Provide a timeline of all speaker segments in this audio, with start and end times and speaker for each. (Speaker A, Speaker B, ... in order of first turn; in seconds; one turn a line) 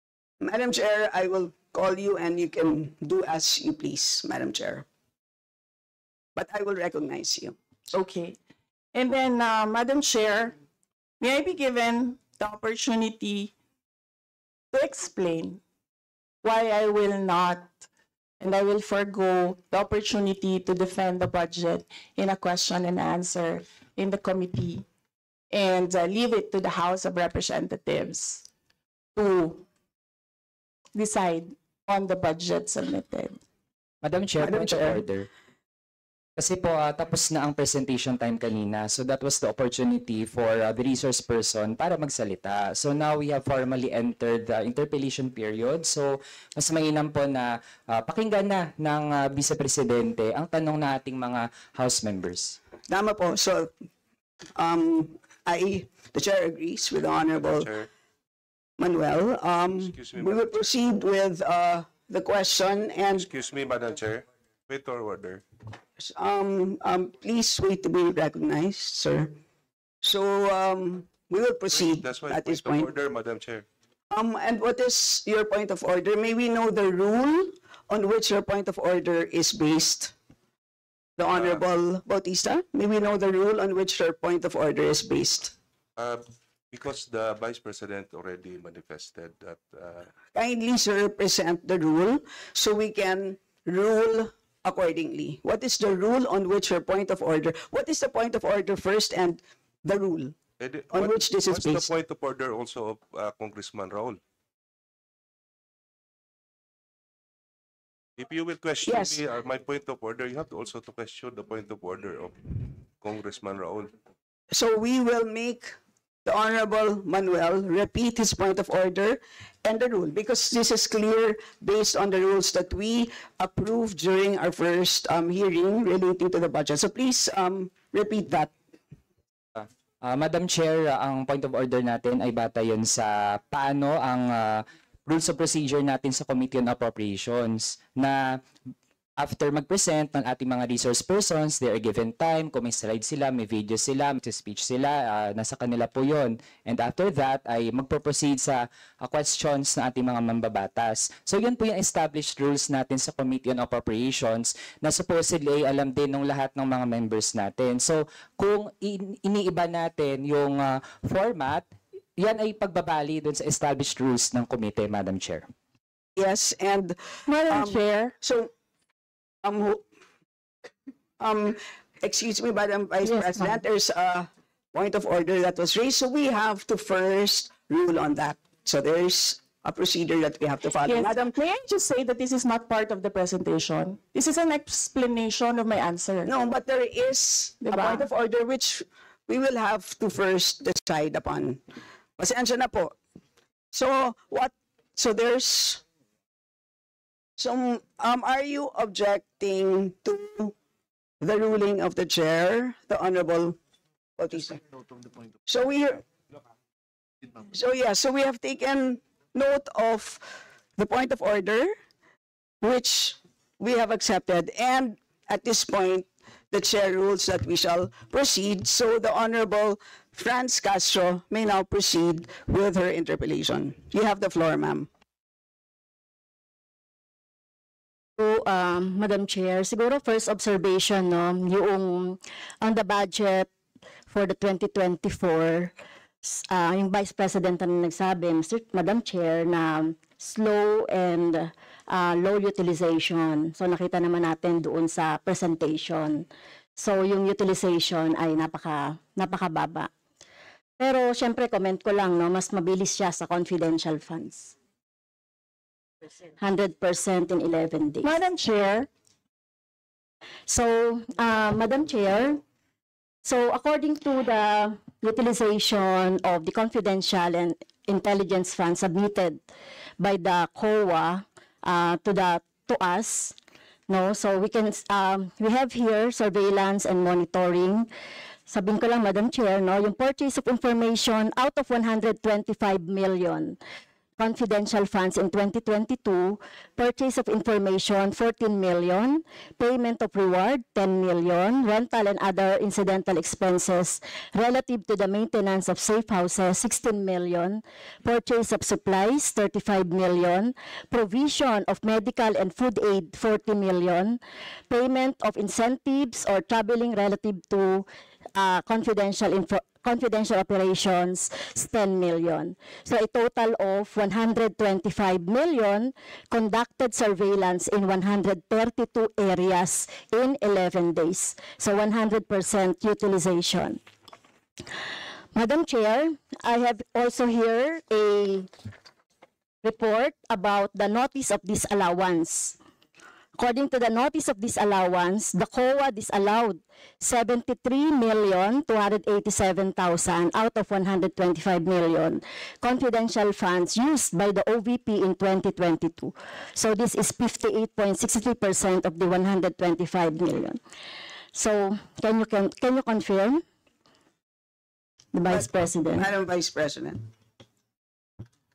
Speaker A: 0.4-4.8
Speaker A: 6.3-7.6
Speaker B: 7.9-8.4
Speaker B: 8.9-10.6
Speaker B: 11.2-13.5
Speaker B: 14.7-15.6
Speaker B: 16.4-17.9
Speaker B: 18.4-24.9
Speaker B: 25.5-28.4
Speaker B: 29.1-29.6
Speaker B: 30.9-33.4
Speaker C: 34.0-35.3
Speaker A: 34.4-35.0
Speaker C: 36.4-52.6
Speaker A: 52.9-53.7
Speaker A: 54.5-57.7
Speaker D: 57.3-57.9
Speaker A: 58.8-63.3
Speaker D: 59.8-60.8
Speaker D: 63.1-65.4
Speaker A: 66.0-69.3
Speaker A: 70.0-72.9
Speaker D: 71.7-73.7
Speaker A: 74.1-80.1
Speaker A: 81.2-85.5
Speaker D: 81.3-81.6
Speaker D: 86.0-90.1
Speaker A: 90.3-100.3
Speaker D: 100.6-104.2
Speaker A: 100.9-101.9
Speaker D: 108.2-113.9
Speaker A: 108.8-109.2
Speaker A: 114.5-128.5
Speaker C: 129.6-138.2
Speaker C: 139.2-161.7
Speaker C: 162.2-165.4
Speaker A: 166.2-168.5
Speaker B: 167.3-168.1
Speaker A: 169.4-169.8
Speaker A: 171.2-181.3
Speaker B: 173.0-173.6
Speaker B: 180.8-186.3
Speaker A: 186.2-191.6
Speaker B: 187.6-188.1
Speaker A: 192.2-193.0
Speaker A: 193.7-195.8
Speaker A: 197.4-200.5
Speaker A: 201.2-203.6
Speaker A: 204.2-204.6
Speaker A: 205.5-206.0
Speaker A: 207.5-210.2
Speaker A: 210.8-211.7
Speaker A: 212.6-224.9
Speaker E: 228.2-233.5
Speaker E: 234.1-235.7
Speaker E: 236.2-246.2
Speaker E: 246.8-249.9
Speaker E: 250.8-254.5
Speaker E: 256.4-258.2
Speaker B: 258.0-258.9
Speaker E: 260.5-262.4
Speaker E: 263.2-269.4
Speaker E: 270.0-273.3
Speaker E: 273.9-277.9
Speaker E: 278.5-283.6
Speaker E: 284.2-304.2
Speaker E: 304.7-323.8
Speaker E: 325.3-328.5
Speaker E: 329.6-332.6
Speaker E: 333.4-350.6
Speaker E: 351.3-353.4
Speaker E: 355.1-356.1
Speaker A: 355.3-357.0